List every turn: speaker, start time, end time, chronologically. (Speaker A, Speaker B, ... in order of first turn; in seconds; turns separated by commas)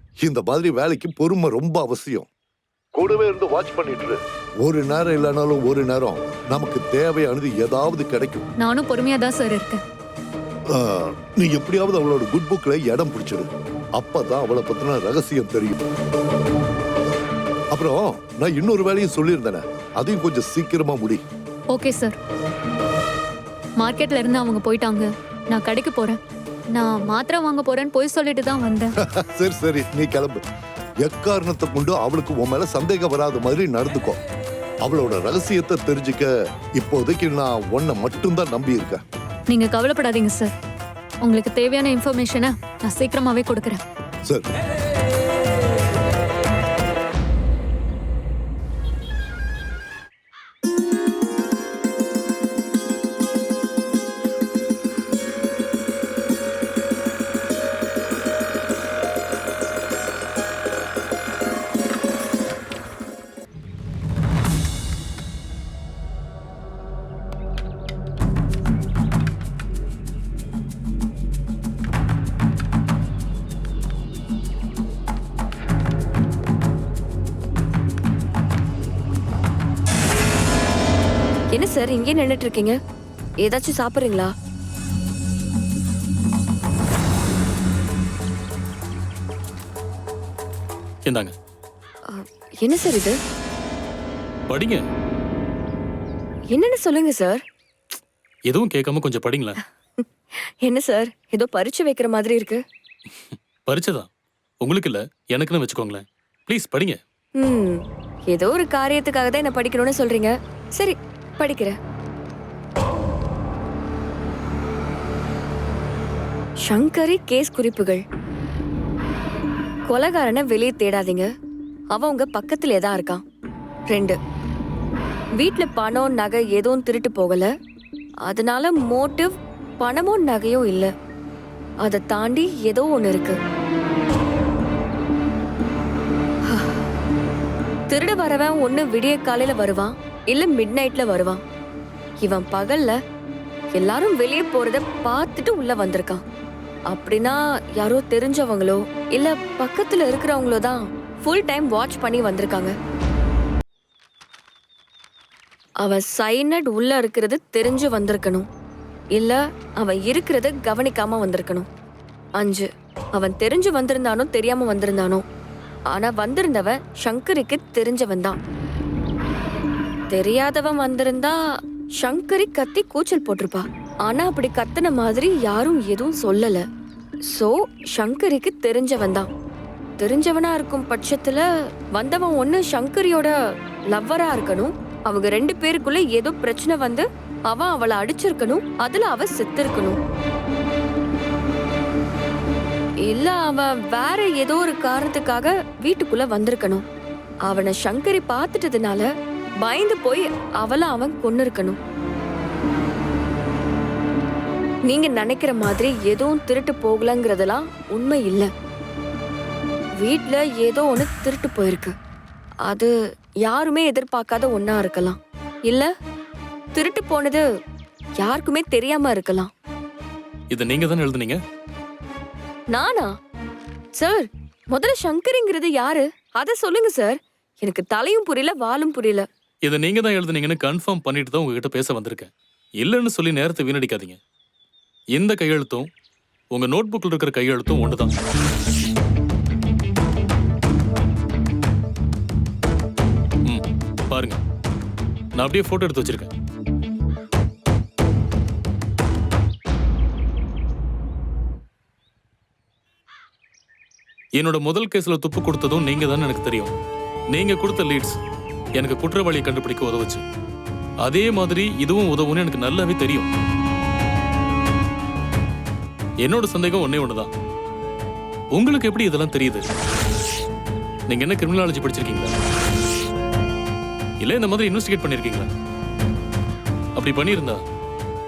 Speaker A: 0.2-2.3, Speaker A: 3.0-8.4, Speaker B: 8.6-9.8, Speaker A: 10.7-15.8, Speaker A: 17.7-21.2, Speaker B: 21.7-22.2, Speaker B: 23.8-26.2, Speaker B: 26.8-28.9, Speaker A: 29.1-30.4, Speaker A: 31.0-34.2, Speaker A: 34.9-39.0, Speaker B: 39.5-40.5, Speaker B: 41.2-43.8, Speaker C: 81.5-82.8, Speaker C: 83.4-84.3, Speaker D: 91.1-91.3, Speaker C: 92.1-93.2, Speaker D: 94.5-94.8, Speaker C: 96.5-97.4, Speaker D: 98.5-99.5, Speaker C: 100.6-102.6, Speaker D: 103.7-104.1, Speaker D: 104.6-107.0, Speaker C: 107.4-107.8, Speaker C: 108.3-111.8, Speaker C: 116.7-118.0, Speaker C: 119.9-121.3, Speaker C: 121.9-123.2, Speaker C: 123.9-124.2, Speaker C: 125.4-127.5, Speaker C: 128.3-130.9, Speaker C: 131.8-133.4, Speaker C: 136.5-136.8, Speaker C: 137.9-141.4, Speaker C: 142.2-143.0, Speaker C: 143.8-146.2, Speaker C: 146.9-152.7, Speaker C: 155.8-158.5, Speaker C: 159.2-161.7, Speaker C: 162.4-165.2, Speaker C: 165.9-168.4, Speaker C: 170.1-171.4, Speaker C: 172.0-176.6, Speaker C: 177.3-179.3, Speaker C: 180.0-181.4, Speaker C: 181.9-183.3, Speaker C: 183.9-190.0, Speaker C: 193.1-196.8, Speaker C: 197.5-199.1, Speaker C: 199.6-201.8, Speaker C: 204.9-208.5, Speaker C: 210.0-211.9, Speaker C: 213.5-215.9, Speaker C: 216.8-217.4, Speaker C: 218.2-219.5, Speaker D: 220.5-221.4, Speaker C: 222.7-223.1, Speaker C: 224.0-229.3, Speaker D: 229.7-232.3, Speaker D: 232.8-234.2, Speaker D: 235.2-235.9, Speaker D: 236.6-238.1, Speaker D: 243.5-244.4, Speaker D: 245.4-246.3, Speaker D: 254.4-256.7, Speaker D: 257.3-258.2, Speaker D: 258.8-260.2, Speaker D: 261.1-263.3, Speaker D: 266.2-267.3, Speaker D: 268.6-269.6, Speaker D: 271.1-272.3, Speaker D: 274.2-275.5, Speaker D: 277.0-277.6